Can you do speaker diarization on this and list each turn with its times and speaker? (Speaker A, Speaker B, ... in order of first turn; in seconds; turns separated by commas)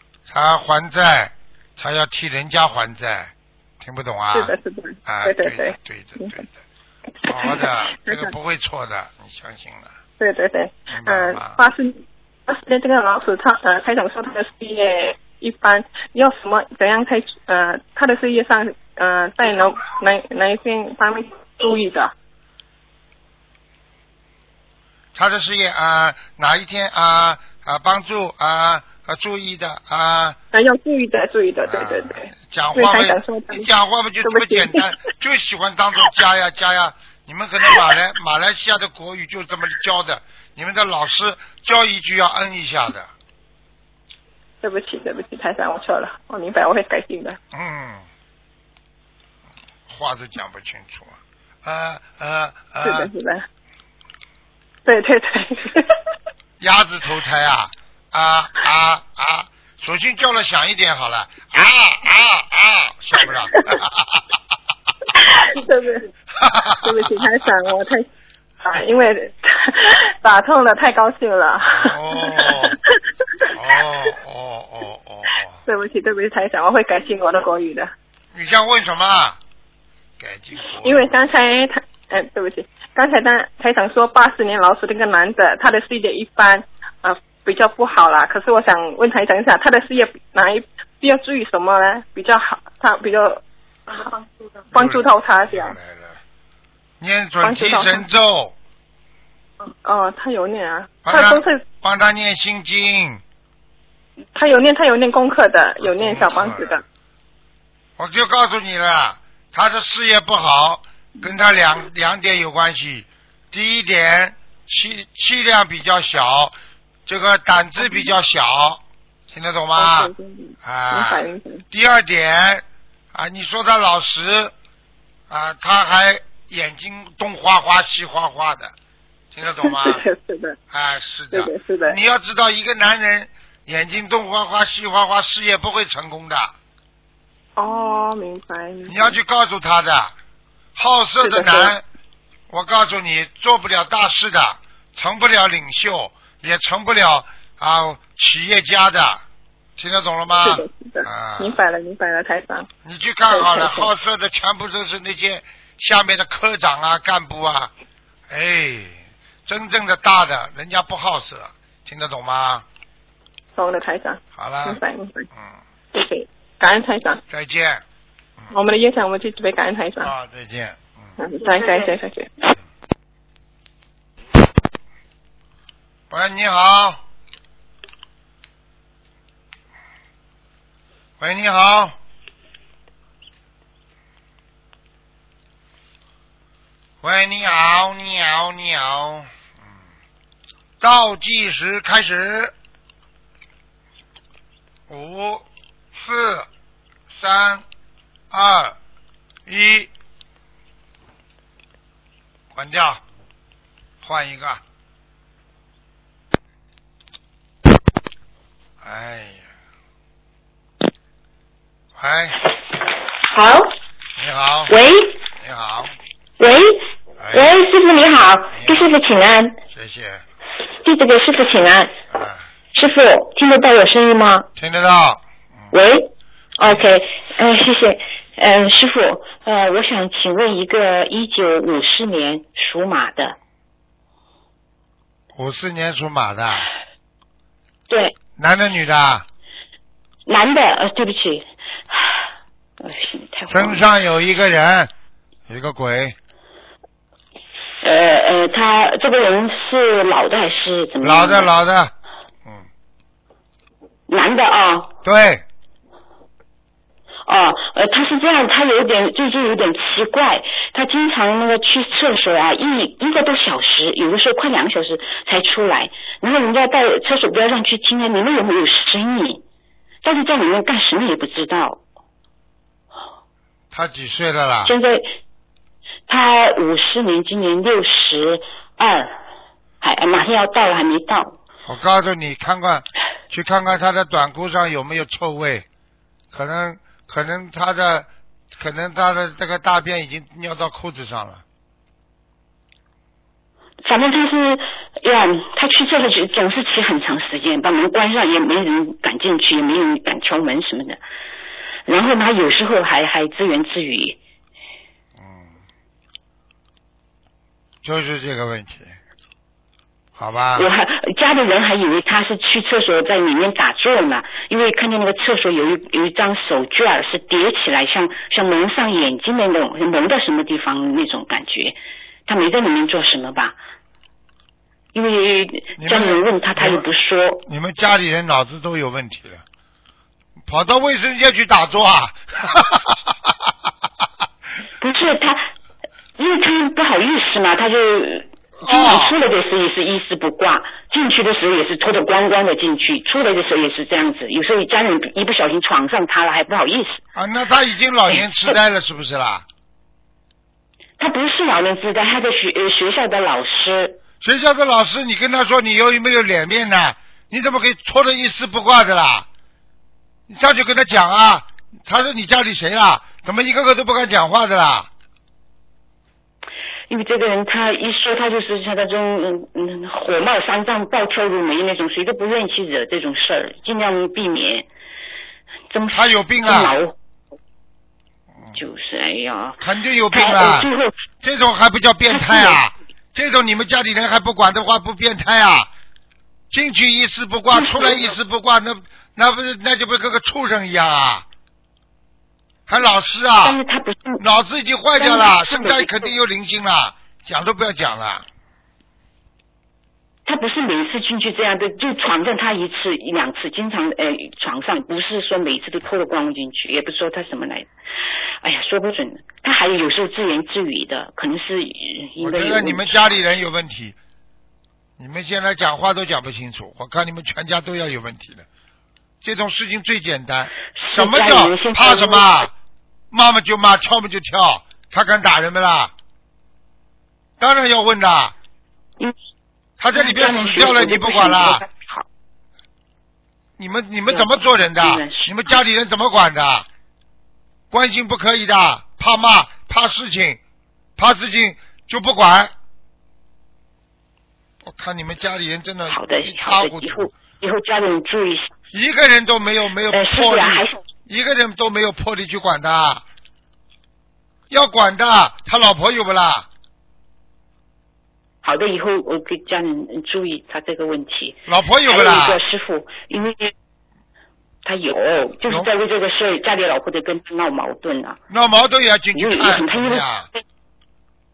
Speaker A: 0.3-4.5, Speaker B: 4.3-6.3, Speaker A: 5.0-6.5, Speaker A: 7.2-9.9, Speaker B: 7.3-8.3, Speaker B: 10.2-22.1, Speaker A: 10.9-11.6, Speaker A: 25.1-30.4, Speaker B: 30.5-33.7, Speaker A: 31.6-43.1, Speaker B: 34.2-34.9, Speaker B: 44.6-47.4, Speaker A: 47.5-48.0, Speaker A: 49.9-53.1, Speaker B: 52.8-53.5, Speaker B: 54.9-56.0, Speaker A: 56.6-64.2, Speaker B: 65.2-66.1, Speaker A: 66.3-67.5, Speaker B: 66.8-68.0, Speaker B: 68.6-73.5, Speaker A: 71.7-72.8, Speaker A: 73.5-75.6, Speaker B: 75.7-77.9, Speaker A: 78.3-79.4, Speaker A: 80.2-81.1, Speaker B: 80.8-95.7, Speaker A: 94.7-96.2, Speaker A: 97.0-98.5, Speaker B: 97.4-98.0, Speaker B: 99.6-101.6, Speaker A: 101.0-103.2, Speaker B: 104.3-106.8, Speaker A: 105.8-106.8, Speaker A: 108.0-120.1, Speaker B: 119.8-121.6, Speaker A: 120.6-124.5, Speaker A: 125.3-128.7, Speaker A: 129.3-130.0, Speaker B: 129.6-130.6, Speaker A: 130.7-136.5, Speaker B: 131.3-132.0, Speaker B: 137.6-139.2, Speaker A: 138.9-140.1, Speaker A: 140.8-141.8, Speaker B: 141.2-141.7, Speaker A: 142.5-149.2, Speaker A: 149.8-151.6, Speaker B: 150.4-152.7, Speaker A: 152.8-157.7, Speaker B: 153.3-153.9, Speaker A: 158.3-162.6, Speaker B: 163.6-165.3, Speaker A: 164.3-164.8, Speaker B: 165.9-167.2, Speaker A: 167.3-167.8, Speaker B: 168.5-170.1, Speaker A: 170.0-171.1, Speaker B: 171.2-172.3, Speaker A: 176.1-177.0, Speaker A: 181.2-181.9, Speaker A: 187.0-189.3, Speaker A: 190.8-192.5, Speaker A: 194.9-196.5, Speaker A: 197.1-197.6, Speaker A: 198.3-198.8, Speaker A: 199.4-199.9, Speaker A: 202.5-203.0, Speaker A: 204.0-204.6, Speaker A: 208.8-209.4, Speaker A: 211.9-212.4, Speaker C: 213.3-213.7, Speaker A: 214.2-214.8, Speaker C: 214.7-215.1, Speaker A: 215.4-215.9, Speaker C: 216.4-219.6, Speaker A: 217.2-217.6, Speaker A: 218.5-218.9, Speaker A: 219.7-220.2, Speaker C: 220.8-221.9, Speaker A: 222.1-222.4, Speaker C: 222.7-224.5, Speaker A: 224.6-225.2, Speaker C: 225.7-233.4, Speaker A: 235.3-236.7, Speaker C: 237.9-238.1, Speaker A: 238.4-239.2, Speaker C: 240.3-242.2, Speaker C: 242.8-243.8, Speaker A: 243.5-244.9, Speaker A: 245.5-246.2, Speaker C: 247.8-251.5, Speaker A: 251.0-251.9, Speaker C: 254.1-254.9, Speaker A: 255.0-255.4, Speaker C: 257.2-269.4, Speaker C: 270.0-271.8, Speaker A: 273.7-274.7, Speaker C: 274.6-275.1, Speaker C: 276.1-279.2, Speaker C: 279.8-281.4, Speaker A: 281.6-285.6, Speaker A: 286.3-291.4, Speaker C: 293.8-301.0, Speaker C: 301.9-304.2, Speaker A: 305.2-305.6, Speaker A: 307.8-308.9, Speaker A: 310.1-310.7, Speaker C: 310.6-323.6, Speaker C: 324.9-327.4, Speaker A: 325.8-326.8, Speaker A: 327.5-329.4, Speaker A: 330.5-333.3, Speaker C: 334.8-335.5, Speaker C: 336.2-347.0, Speaker A: 338.6-339.2, Speaker A: 347.1-349.4, Speaker C: 348.1-348.5, Speaker C: 351.0-354.0, Speaker A: 354.2-359.2, Speaker A: 360.3-364.9, Speaker C: 366.9-374.7, Speaker C: 375.7-376.9, Speaker A: 375.9-376.8, Speaker C: 378.5-379.6, Speaker A: 379.6-380.7, Speaker C: 380.1-380.9, Speaker A: 381.2-385.7, Speaker C: 382.1-382.6, Speaker A: 386.5-391.2, Speaker C: 387.5-388.1, Speaker A: 392.7-393.6, Speaker C: 393.4-394.2, Speaker A: 394.2-398.2, Speaker C: 395.0-396.1, Speaker C: 400.2-407.7, Speaker C: 408.4-413.2, Speaker A: 412.2-413.9, Speaker A: 415.0-418.4, Speaker A: 419.2-422.5, Speaker C: 420.8-422.5, Speaker A: 423.1-425.9, Speaker A: 427.4-428.3, Speaker A: 429.8-431.6, Speaker C: 429.9-432.1, Speaker A: 433.6-436.7, Speaker C: 434.1-435.6, Speaker A: 437.7-440.4, Speaker A: 441.0-442.5, Speaker A: 444.6-447.1, Speaker C: 445.9-448.5, Speaker A: 448.7-453.0, Speaker C: 449.9-450.8, Speaker A: 454.5-456.5, Speaker C: 458.4-463.5, Speaker A: 461.5-462.4, Speaker C: 464.6-468.2, Speaker A: 468.3-470.3, Speaker C: 469.1-470.1